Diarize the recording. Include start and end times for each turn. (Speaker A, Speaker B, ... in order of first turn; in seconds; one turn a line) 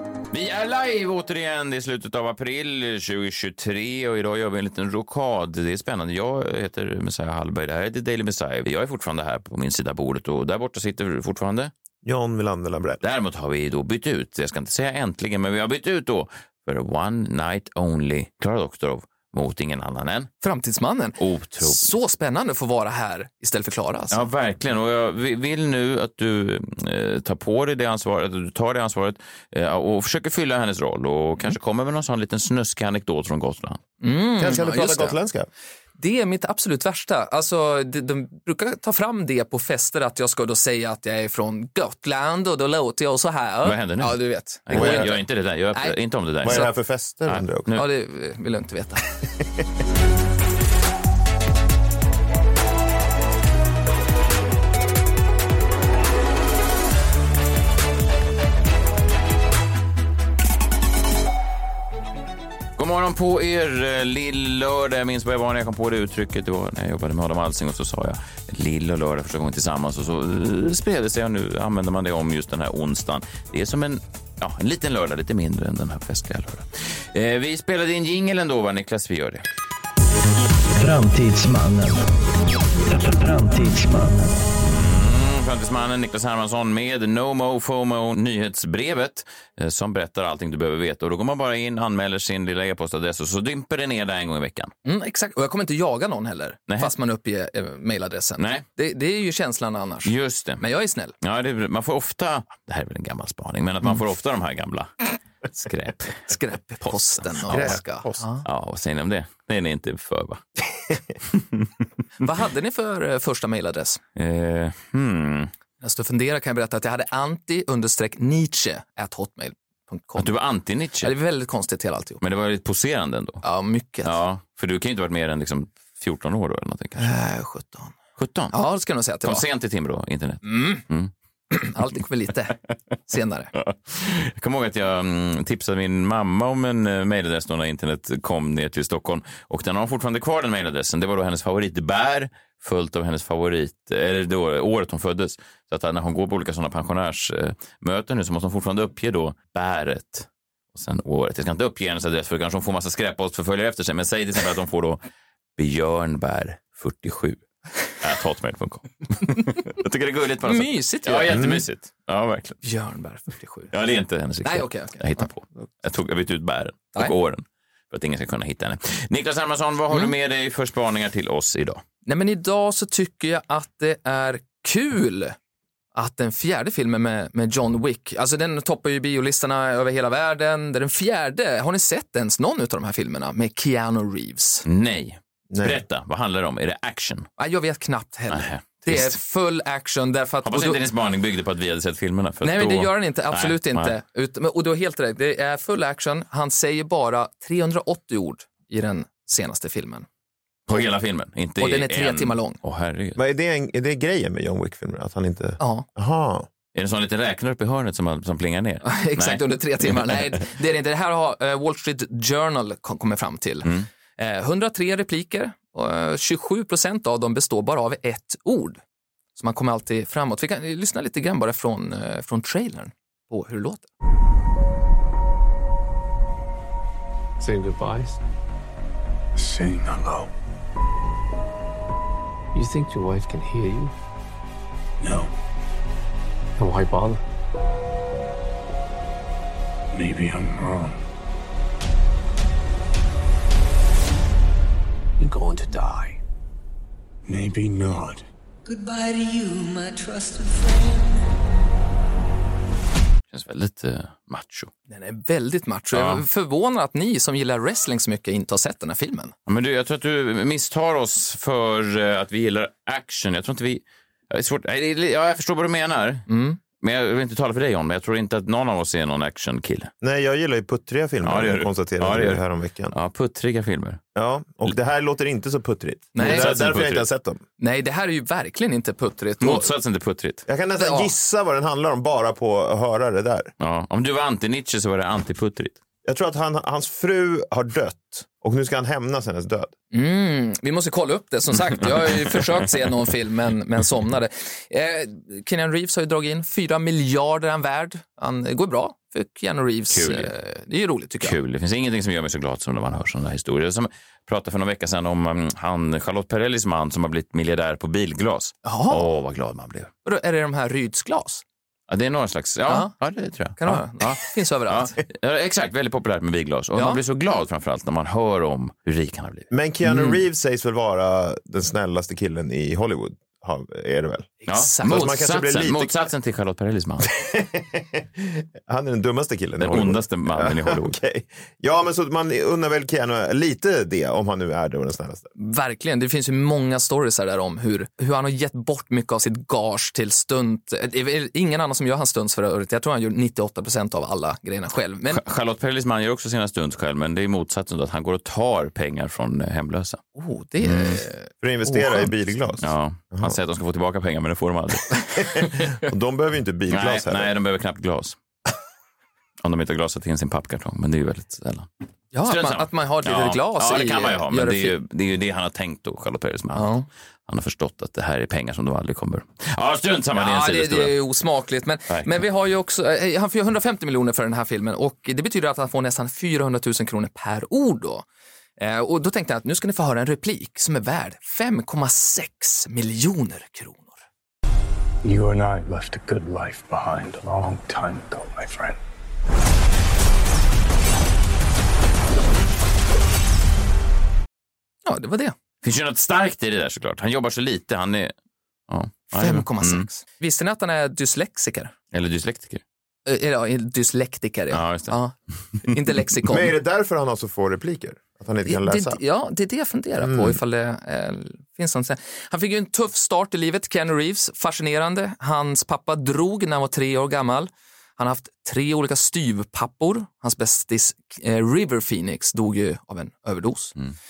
Speaker A: 0.3-11.7
Speaker B: 12.0-13.0
Speaker A: 13.0-20.3
Speaker C: 20.4-24.3
Speaker A: 21.2-21.9
Speaker A: 24.1-33.8
Speaker C: 34.0-35.2
Speaker B: 34.4-35.5
Speaker C: 36.0-45.2
Speaker A: 43.6-46.6
Speaker B: 44.7-45.1
Speaker C: 45.7-46.7
Speaker B: 46.4-47.7
Speaker A: 47.3-47.9
Speaker C: 47.7-49.0
Speaker A: 62.8-79.5
Speaker D: 80.8-82.0
Speaker D: 82.9-84.4
Speaker A: 84.6-94.7
Speaker C: 94.8-101.2
Speaker A: 98.4-98.7
Speaker A: 100.0-100.6
Speaker A: 101.2-105.0
Speaker A: 105.5-106.3
Speaker C: 106.2-108.4
Speaker A: 106.8-107.8
Speaker B: 107.5-108.2
Speaker A: 108.4-110.4
Speaker C: 112.2-114.0
Speaker A: 114.2-115.5
Speaker C: 115.8-120.3
Speaker A: 120.2-121.1
Speaker C: 121.0-122.2
Speaker A: 122.2-123.4
Speaker C: 123.4-124.2
Speaker A: 124.0-127.1
Speaker C: 127.0-128.0
Speaker A: 128.2-128.6
Speaker C: 128.5-129.5
Speaker A: 129.2-131.1
Speaker C: 130.4-130.8
Speaker C: 131.5-133.5
Speaker A: 133.5-155.0
Speaker A: 155.6-157.4
Speaker A: 157.9-162.6
Speaker C: 160.4-161.4
Speaker B: 161.3-161.6
Speaker C: 162.6-163.7
Speaker A: 163.7-171.8
Speaker C: 164.4-165.3
Speaker C: 172.1-175.4
Speaker C: 175.9-184.7
Speaker A: 184.7-187.3
Speaker B: 185.5-185.8
Speaker C: 187.4-190.8
Speaker A: 188.3-189.2
Speaker A: 190.4-194.0
Speaker C: 192.4-200.1
Speaker A: 200.7-203.2
Speaker C: 201.6-202.6
Speaker B: 203.2-206.5
Speaker C: 205.6-205.9
Speaker A: 206.8-210.2
Speaker C: 208.8-218.8
Speaker C: 219.4-223.9
Speaker E: 227.4-228.1
Speaker F: 227.4-228.0
Speaker F: 229.3-230.3
Speaker E: 232.6-233.9
Speaker F: 235.0-235.3
Speaker E: 236.6-237.2
Speaker F: 239.9-241.0
Speaker F: 245.2-246.2
Speaker F: 247.3-248.2
Speaker G: 248.7-251.2
Speaker A: 253.3-254.7
Speaker C: 254.9-259.3
Speaker A: 255.9-256.2
Speaker A: 259.5-266.3
Speaker C: 266.3-266.6
Speaker A: 266.8-269.9
Speaker B: 270.0-272.9
Speaker A: 271.2-274.0
Speaker B: 274.1-277.4
Speaker C: 276.1-276.5
Speaker A: 276.2-277.1
Speaker C: 277.6-279.7
Speaker A: 279.4-280.4
Speaker B: 280.5-283.5
Speaker C: 280.8-281.1
Speaker A: 283.6-285.8
Speaker B: 286.1-289.7
Speaker C: 289.9-301.4
Speaker A: 299.9-300.3
Speaker A: 301.2-309.9
Speaker C: 308.6-309.1
Speaker C: 310.1-311.4
Speaker A: 311.9-320.1
Speaker C: 312.7-312.9
Speaker C: 313.6-315.0
Speaker B: 319.5-324.3
Speaker C: 324.4-325.1
Speaker A: 324.5-327.1
Speaker B: 324.8-325.9
Speaker B: 327.2-335.3
Speaker A: 329.6-331.0
Speaker C: 335.4-345.2
Speaker A: 345.1-350.0
Speaker C: 350.1-352.1
Speaker A: 350.6-351.0
Speaker B: 351.4-353.4
Speaker A: 352.6-355.0
Speaker B: 355.2-357.3
Speaker A: 356.7-358.2
Speaker A: 359.4-361.7
Speaker C: 362.1-364.8
Speaker A: 362.2-366.7
Speaker C: 366.6-366.9
Speaker A: 367.3-371.0
Speaker C: 370.1-378.1
Speaker A: 371.9-372.2
Speaker C: 378.6-384.0
Speaker F: 385.0-388.8
Speaker C: 394.9-395.4
Speaker A: 395.6-398.1
Speaker A: 398.7-399.9
Speaker C: 399.1-401.7
Speaker A: 401.9-402.6
Speaker C: 403.1-406.5
Speaker A: 404.5-405.0
Speaker B: 406.2-409.0
Speaker C: 408.4-423.7
Speaker B: 410.0-410.4